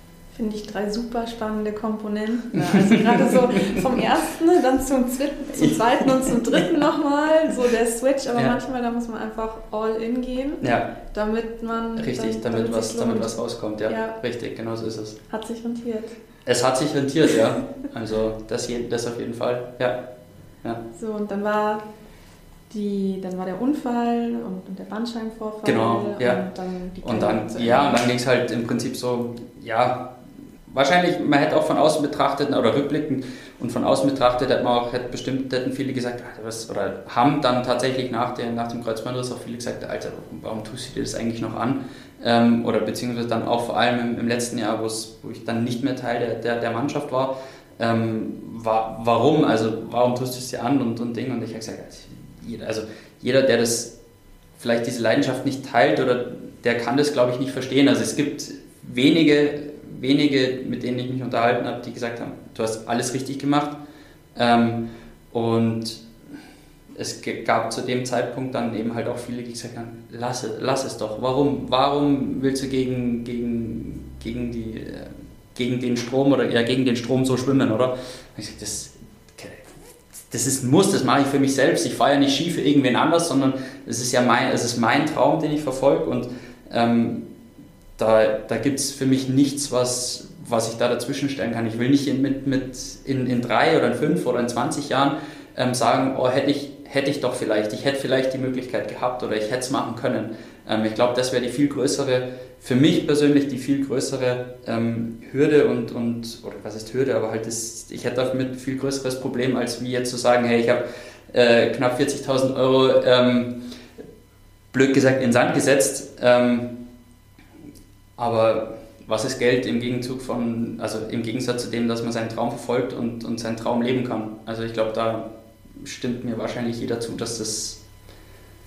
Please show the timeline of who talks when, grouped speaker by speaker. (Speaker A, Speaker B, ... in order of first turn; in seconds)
Speaker A: 0.3-14.2, 15.3-16.1, 20.9-21.8, 22.7-28.0
Speaker B: 2.5-4.0, 5.5-6.6, 10.6-10.9, 11.9-15.2, 16.4-20.0, 25.6-26.4, 27.0-30.1, 30.7-53.9, 54.6-63.8, 64.3-66.0, 66.9-79.7, 80.3-87.3, 88.0-113.6, 114.7-116.7, 118.2-125.2, 125.8-127.8